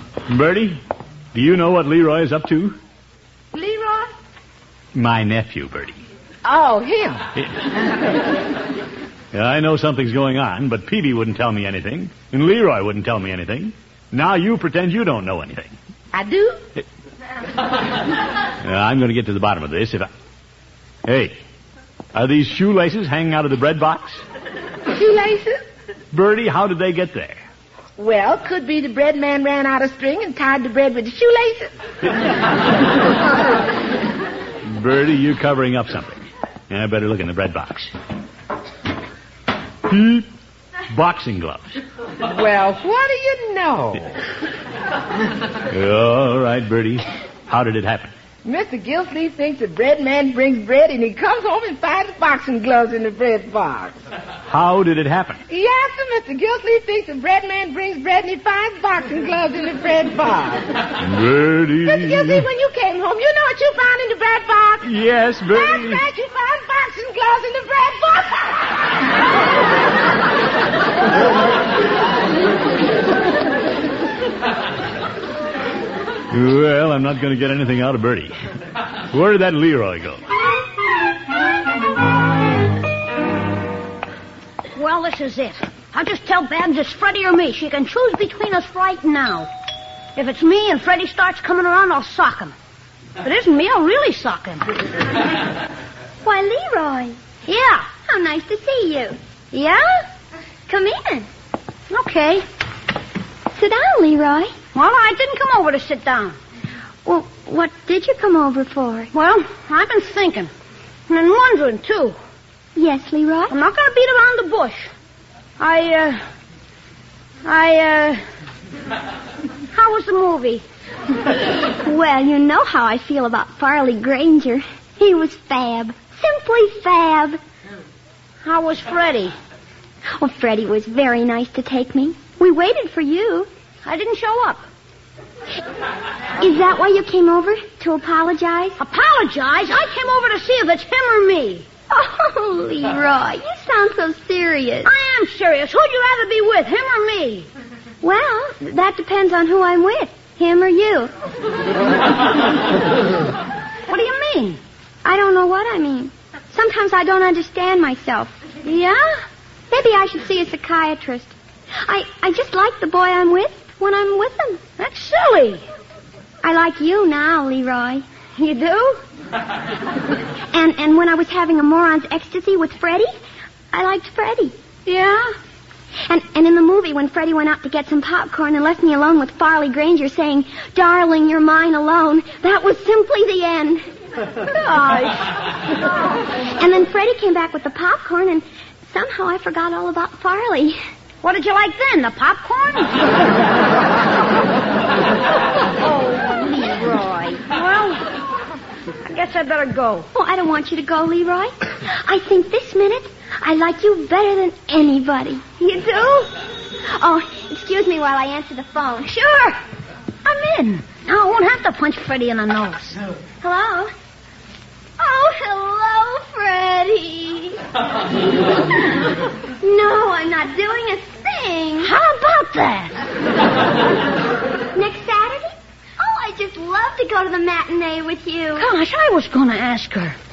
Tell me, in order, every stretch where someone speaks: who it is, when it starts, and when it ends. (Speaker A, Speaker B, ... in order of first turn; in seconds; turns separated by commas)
Speaker A: 0.3-0.8, Speaker A: 1.3-2.8, Speaker B: 3.5-4.1, Speaker A: 4.9-6.0, Speaker B: 6.4-7.3, Speaker A: 9.3-15.8, Speaker B: 16.1-16.6, Speaker A: 18.6-20.1, Speaker A: 21.0-21.4, Speaker A: 22.1-24.2, Speaker B: 24.9-25.6, Speaker A: 26.1-27.4, Speaker B: 28.0-31.7, Speaker A: 34.6-37.9, Speaker A: 39.9-40.3, Speaker A: 40.9-41.8, Speaker B: 42.2-44.1, Speaker A: 45.7-48.1, Speaker B: 48.4-54.0, Speaker A: 54.5-55.4, Speaker B: 55.5-60.8, Speaker A: 61.0-62.5, Speaker B: 61.8-64.9, Speaker A: 64.8-66.0, Speaker B: 65.5-69.0, Speaker A: 76.3-78.3, Speaker A: 79.1-80.2, Speaker C: 84.8-89.5, Speaker C: 90.2-92.5, Speaker C: 93.2-94.8, Speaker D: 96.2-97.2, Speaker C: 97.5-97.9, Speaker D: 98.0-99.2, Speaker C: 99.5-100.0, Speaker D: 100.7-101.3, Speaker C: 101.9-102.4, Speaker D: 103.5-104.5, Speaker C: 104.7-106.4, Speaker D: 107.0-109.1, Speaker C: 109.1-110.5, Speaker C: 111.1-112.2, Speaker D: 112.8-113.5, Speaker C: 113.5-114.9, Speaker C: 115.6-116.2, Speaker C: 117.4-118.2, Speaker C: 119.7-120.6, Speaker D: 121.7-127.4, Speaker C: 128.4-129.3, Speaker D: 130.2-133.5, Speaker C: 133.8-134.7, Speaker D: 136.4-138.8, Speaker C: 138.8-141.7, Speaker D: 141.9-144.9, Speaker C: 144.8-147.5, Speaker D: 148.0-151.1, Speaker C: 153.9-154.6, Speaker D: 155.0-158.4, Speaker C: 158.6-159.2, Speaker D: 159.7-164.6, Speaker C: 164.8-165.6, Speaker D: 166.4-168.0, Speaker C: 168.4-169.0, Speaker D: 170.5-173.1, Speaker D: 173.7-174.5, Speaker C: 174.8-175.3, Speaker D: 176.1-183.8, Speaker C: 184.5-185.3, Speaker D: 186.6-190.8, Speaker C: 191.2-193.1, Speaker D: 195.9-197.4, Speaker C: 197.5-198.1, Speaker C: 199.0-200.1, Speaker D: 200.1-206.3, Speaker D: 206.9-209.1, Speaker C: 209.1-209.6, Speaker C: 210.2-213.0, Speaker D: 213.4-213.9, Speaker D: 215.0-217.6, Speaker D: 219.6-221.9, Speaker C: 221.8-222.9, Speaker D: 224.7-228.7, Speaker C: 228.6-230.2